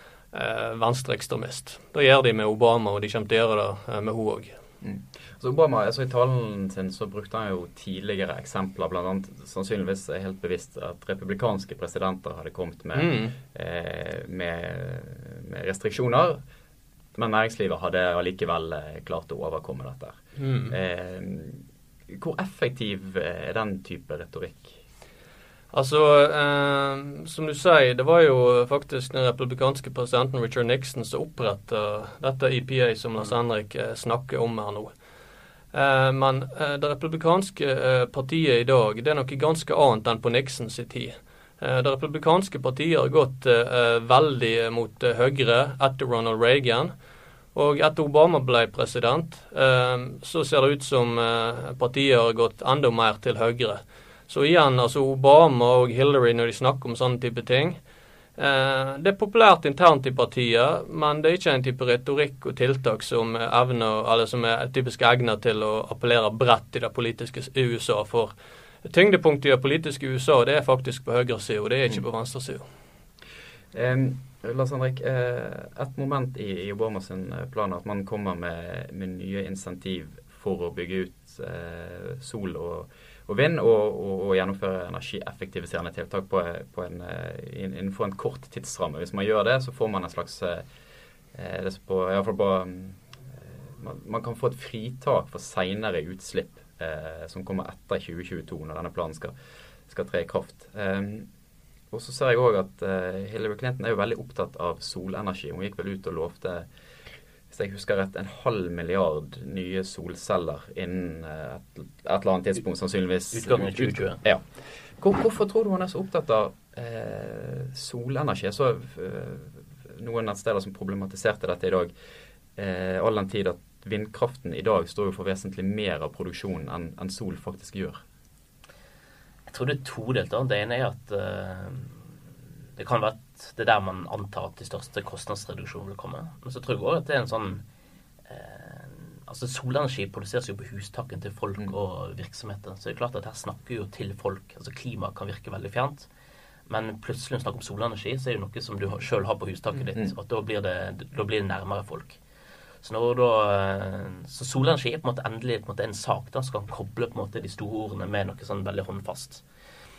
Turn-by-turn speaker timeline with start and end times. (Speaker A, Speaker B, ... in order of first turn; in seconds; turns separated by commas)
Speaker A: 0.3-4.5, Speaker B: 4.8-16.4, Speaker A: 12.9-13.3, Speaker B: 17.1-24.8, Speaker A: 20.4-20.8, Speaker A: 25.7-34.9, Speaker A: 35.7-46.9, Speaker A: 47.5-57.8, Speaker A: 58.4-72.6, Speaker B: 73.7-90.7, Speaker B: 91.3-93.0, Speaker B: 93.7-99.3, Speaker B: 99.9-101.3, Speaker B: 101.9-106.7, Speaker B: 107.5-121.9, Speaker C: 113.3-114.2, Speaker B: 122.5-128.0, Speaker C: 129.5-132.0, Speaker C: 132.8-137.6, Speaker C: 138.3-146.1, Speaker C: 146.7-152.2, Speaker C: 152.8-159.4